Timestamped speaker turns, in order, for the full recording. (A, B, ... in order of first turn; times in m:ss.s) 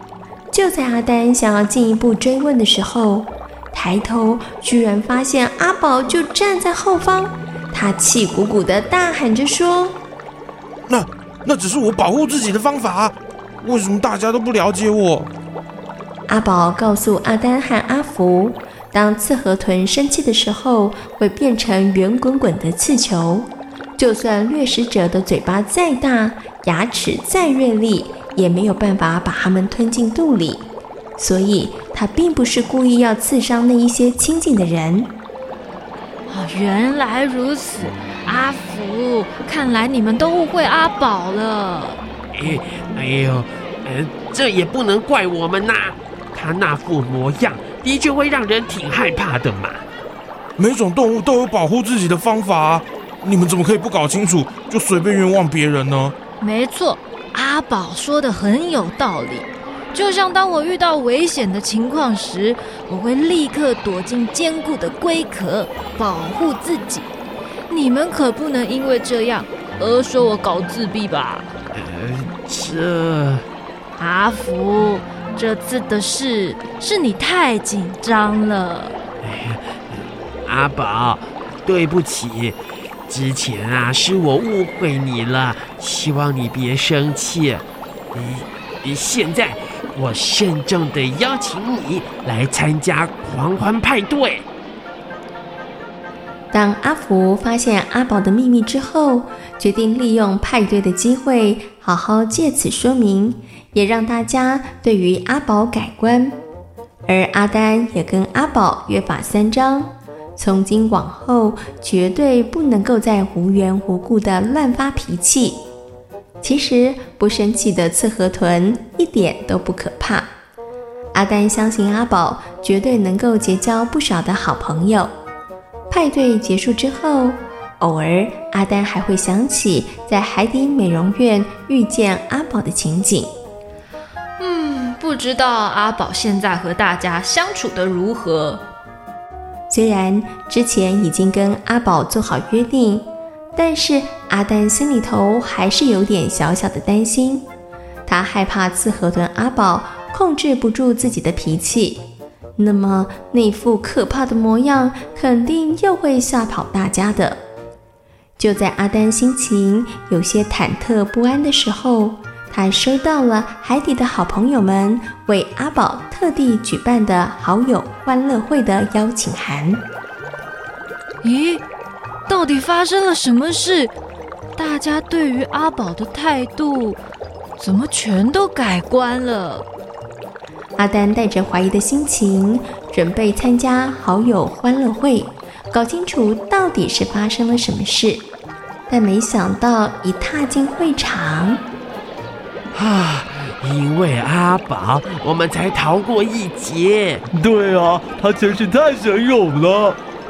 0:00.5-0:10.0 A
0:10.9-0:15.3 B
0:16.3-0:35.1 A
0:36.3-0:42.0 C
0:42.3-0:49.8 D
0:50.6-0:56.2 B
0:56.4-1:07.1 C
1:07.7-1:11.5 C
1:11.7-1:13.4 D
1:14.0-1:19.0 C
1:19.2-1:22.6 D
1:23.1-1:34.4 D
1:36.5-1:46.4 A
1:47.1-1:55.6 A
1:56.4-2:00.3 A
2:01.1-2:05.1 A
2:05.9-2:13.3 A
2:14.4-2:18.6 C
2:19.7-2:27.5 A
2:28.0-2:32.0 A
2:32.6-2:37.4 A
2:38.4-2:49.8 A
2:51.2-2:51.6 C
2:52.3-2:53.9 C
2:54.6-2:57.0 C
2:57.6-2:59.6 C
3:00.8-3:08.2 A
3:08.9-3:11.6 A
3:12.7-3:17.2 D
3:17.3-3:20.0 E